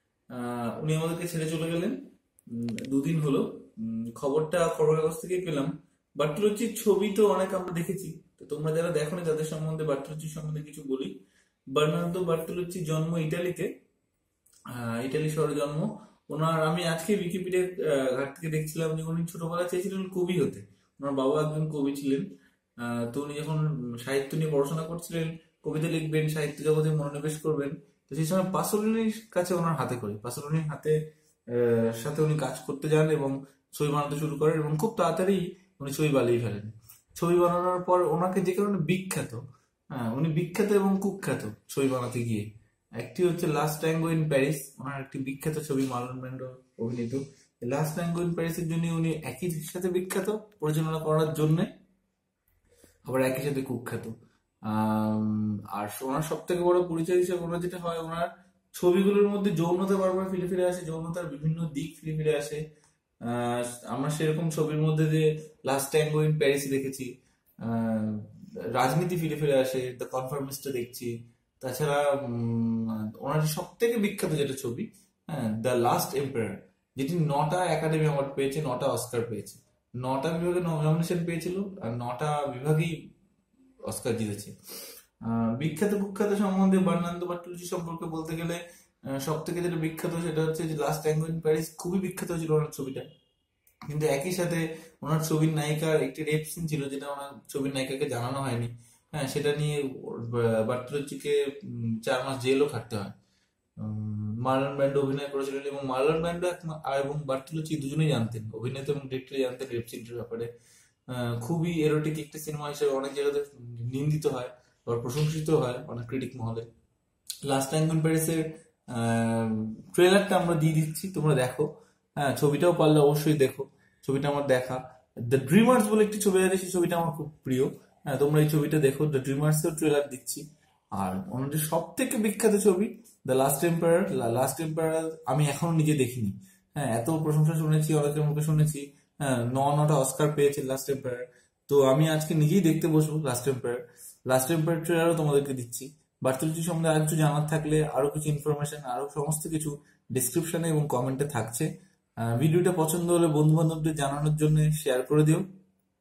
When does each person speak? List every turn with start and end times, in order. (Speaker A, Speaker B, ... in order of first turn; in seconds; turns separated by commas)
Speaker A: 0.3-2.0, Speaker A: 2.5-11.1, Speaker A: 11.7-13.7, Speaker A: 14.7-22.2, Speaker A: 22.8-30.9, Speaker A: 31.5-39.4, Speaker A: 39.9-42.5, Speaker A: 43.0-51.7, Speaker A: 53.0-54.1, Speaker A: 54.6-62.6, Speaker A: 63.2-67.1, Speaker A: 67.6-83.0, Speaker A: 83.8-84.5, Speaker A: 85.2-93.1, Speaker A: 93.9-103.1, Speaker A: 103.8-110.5, Speaker A: 111.1-116.7, Speaker A: 117.4-151.7, Speaker A: 152.2-155.4